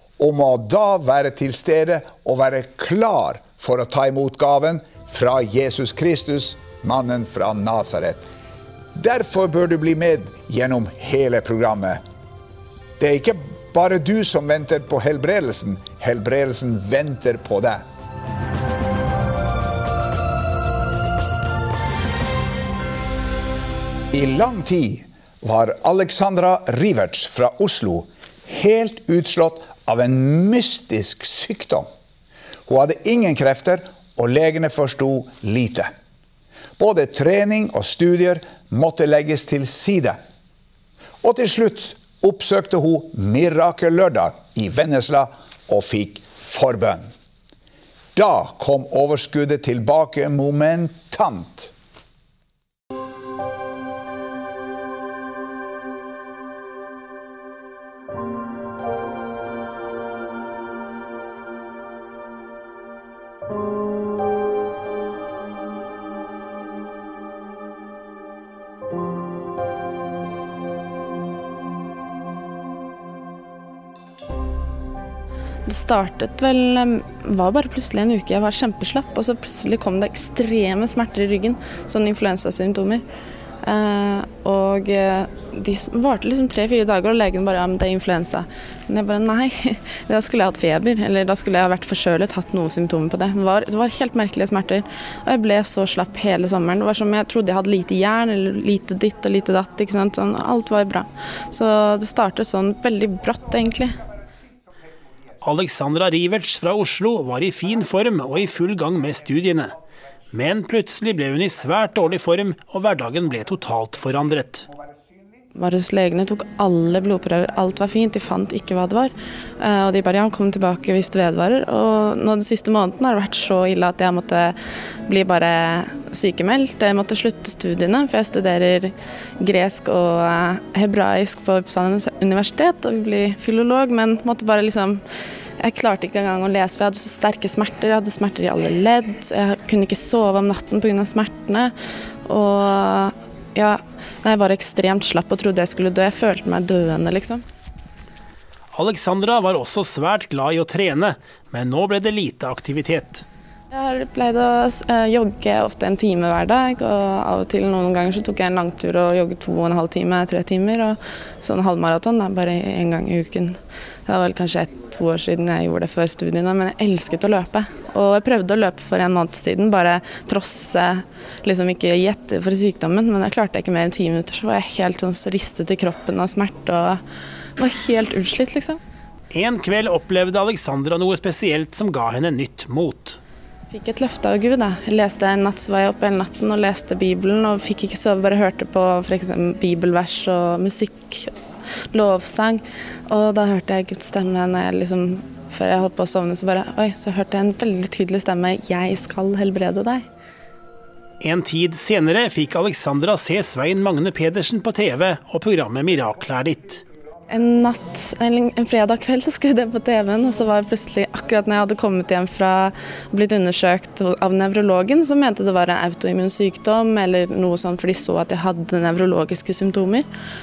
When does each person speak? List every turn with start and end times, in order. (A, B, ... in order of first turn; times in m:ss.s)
0:00.2-0:08.2 A
0:09.0-0:12.0 A
0:13.0-0:17.8 A
0:24.1-0:31.9 A
0:32.7-0:35.9 A
0:36.8-0:40.2 A
0:41.2-0:47.1 A
0:48.2-0:51.7 A
1:15.7-1:23.0 B
1:23.6-1:44.0 B
1:45.4-1:49.8 C
1:50.3-1:54.7 C
1:55.6-2:15.0 B
2:15.6-2:21.7 B
2:22.3-2:27.4 B
2:28.7-2:33.2 C
2:33.7-2:57.0 B
2:57.6-2:58.8 B
2:59.3-3:03.2 C
3:03.7-3:11.3 B
3:11.9-3:20.0 B
3:21.2-3:26.8 C
3:27.3-3:40.1 B